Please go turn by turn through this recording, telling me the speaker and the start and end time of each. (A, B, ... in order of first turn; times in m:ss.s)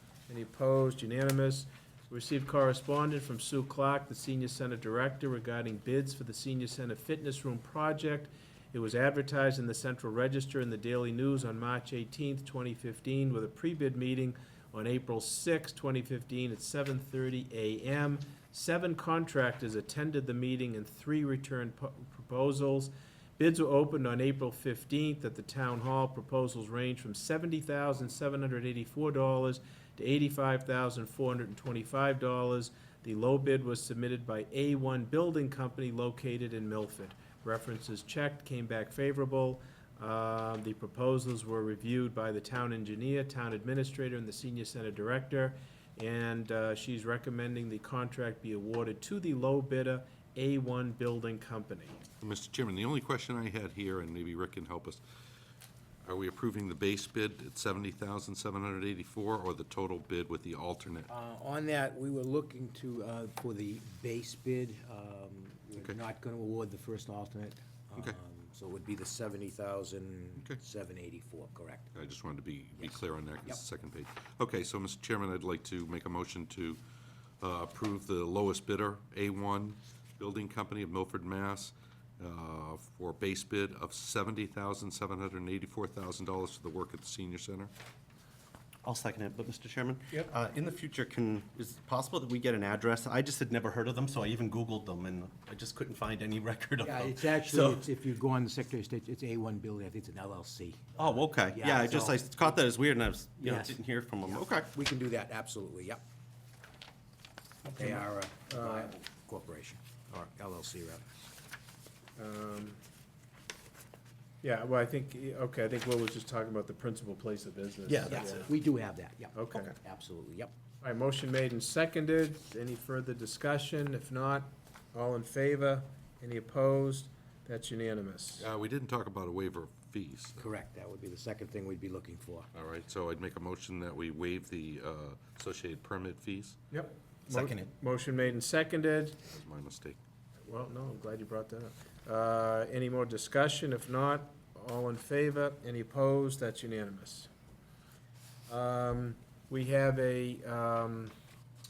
0:00.3-0:52.0 A
0:52.2-0:55.0 B
0:56.0-1:01.1 B
1:01.1-1:11.9 C
1:12.0-1:16.8 B
1:17.4-1:27.7 B
1:28.8-1:37.9 D
1:36.8-1:42.3 C
1:41.0-1:44.7 D
1:43.4-1:43.8 C
1:44.6-1:46.0 C
1:47.7-1:51.1 C
1:48.5-1:48.9 A
1:52.2-1:52.8 A
1:54.4-1:58.5 A
1:57.9-1:58.5 D
1:58.1-2:00.5 C
1:59.3-1:59.7 A
2:00.8-2:08.5 A
2:08.4-2:10.4 B
2:10.4-2:12.5 C
2:12.5-2:16.6 B
2:16.7-2:19.2 A
2:17.3-2:17.7 D
2:19.3-2:20.0 B
2:20.5-2:27.3 A
2:28.5-2:31.1 A